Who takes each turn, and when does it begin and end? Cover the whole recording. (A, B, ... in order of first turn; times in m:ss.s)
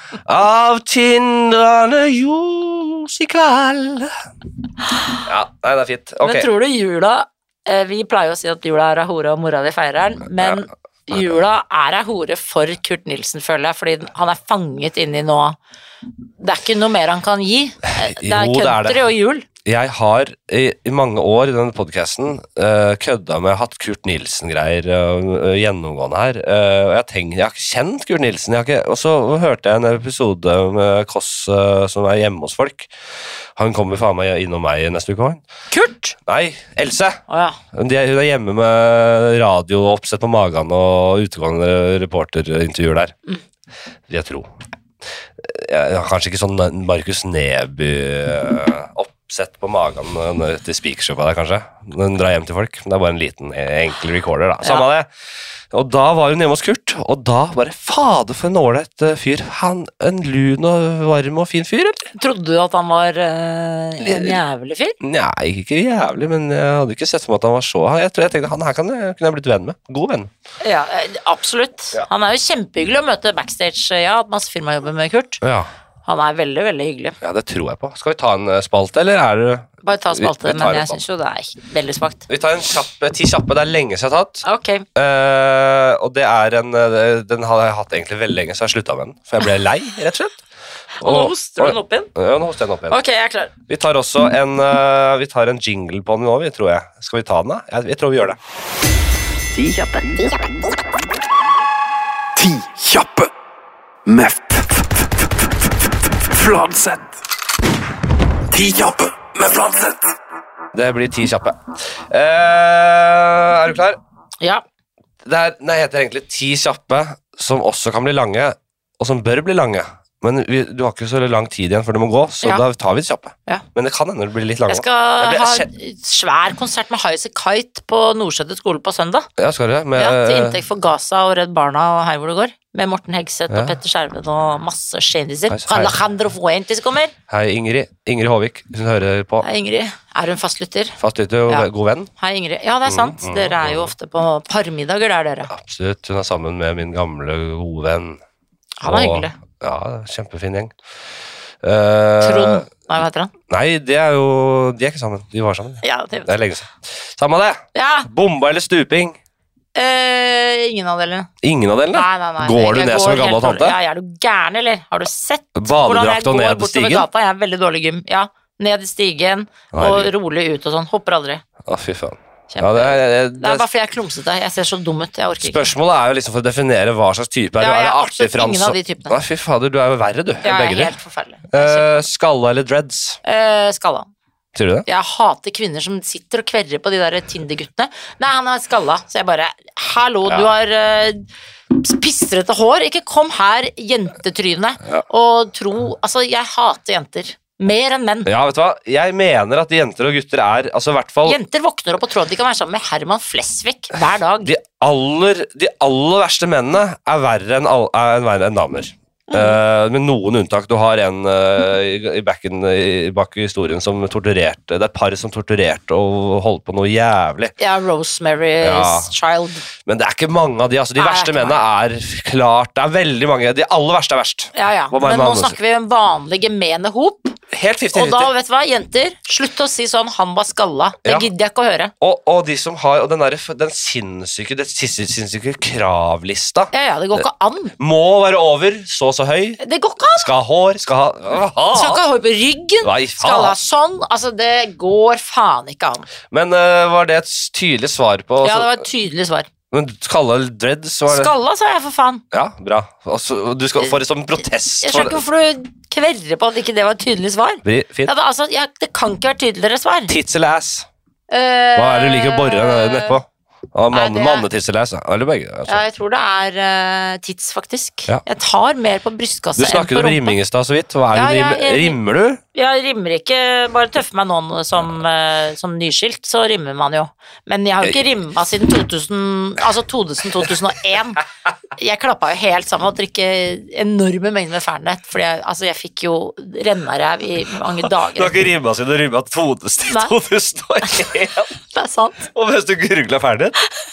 0:00.2-0:04.1 A
0:05.2-0:06.5 A
0:06.2-0:15.6 B
0:16.4-0:19.5 B
0:17.9-0:19.0 A
0:19.6-0:32.9 A
0:33.6-0:35.4 A
0:35.7-0:36.2 B
0:36.2-0:43.1 A
0:37.3-0:37.6 B
0:44.1-0:44.5 A
0:45.4-0:55.1 A
0:55.7-1:02.0 A
1:02.1-1:05.0 B
1:04.0-1:04.4 A
1:05.0-1:10.3 A
1:10.6-1:15.4 B
1:15.4-1:15.7 A
1:16.0-1:17.2 B
1:17.2-1:21.0 A
1:19.8-1:22.2 B
1:22.3-1:30.4 A
1:24.4-1:24.8 B
1:31.0-1:32.1 B
1:31.0-1:33.0 A
1:32.9-1:33.5 B
1:33.7-1:38.4 A
1:39.5-1:40.4 C
1:42.4-1:43.3 C
1:44.0-1:45.3 C
1:46.2-1:47.2 C
1:48.5-1:50.0 C
1:50.7-1:54.0 A
1:55.2-2:05.7 A
2:04.7-2:09.3 B
2:09.4-2:10.6 A
2:10.0-2:17.1 B
2:13.5-2:13.7 A
2:15.5-2:15.9 A
2:17.3-2:19.5 A
2:19.4-2:25.5 B
2:21.0-2:22.1 A
2:22.8-2:23.9 A
2:25.5-2:28.2 A
2:28.8-2:29.3 B
2:28.8-2:30.7 A
2:31.6-2:32.7 A
2:32.2-2:33.3 B
2:33.5-2:39.2 A
2:35.8-2:36.3 B
2:37.7-2:38.1 B
2:39.7-2:41.3 B
2:41.4-2:43.8 A
2:41.9-2:51.4 B
2:45.6-2:47.1 A
2:49.7-2:50.1 A
2:51.6-2:53.6 A
2:52.5-2:55.6 B
2:55.4-3:00.9 A
2:57.6-2:59.2 B
3:00.4-3:02.0 B
3:01.5-3:03.2 A
3:03.2-3:04.1 B
3:04.5-3:04.9 A
3:04.9-3:18.3 B
3:18.2-3:21.4 A
3:21.2-3:24.5 B
3:24.4-3:37.5 A
3:29.3-3:29.6 B
3:37.6-3:39.6 B
3:38.6-3:39.1 A
3:39.8-3:45.6 A
3:41.0-3:41.6 B
3:44.5-3:47.4 B
3:47.5-3:48.3 A
3:47.9-3:51.9 B
3:51.0-3:51.3 A
3:52.0-3:57.2 A
3:56.7-3:57.7 B
3:57.8-3:59.6 A
3:59.6-4:00.3 B
4:00.1-4:02.0 A
4:01.7-4:06.1 B
4:02.8-4:03.6 A
4:06.3-4:08.8 A
4:08.4-4:09.5 B
4:09.7-4:11.3 A
4:11.1-4:12.2 B
4:12.3-4:15.2 A
4:14.8-4:20.1 B
4:17.6-4:18.1 A
4:20.1-4:20.9 A
4:21.3-4:23.2 B
4:21.8-4:25.8 A
4:23.9-4:24.4 B
4:25.7-4:30.4 B
4:29.6-4:32.4 A
4:31.1-4:32.0 B
4:32.5-4:41.2 B
4:41.8-4:48.4 B
4:47.8-4:51.5 A
4:49.9-4:50.1 B
4:51.6-4:52.3 B
4:52.3-4:53.6 A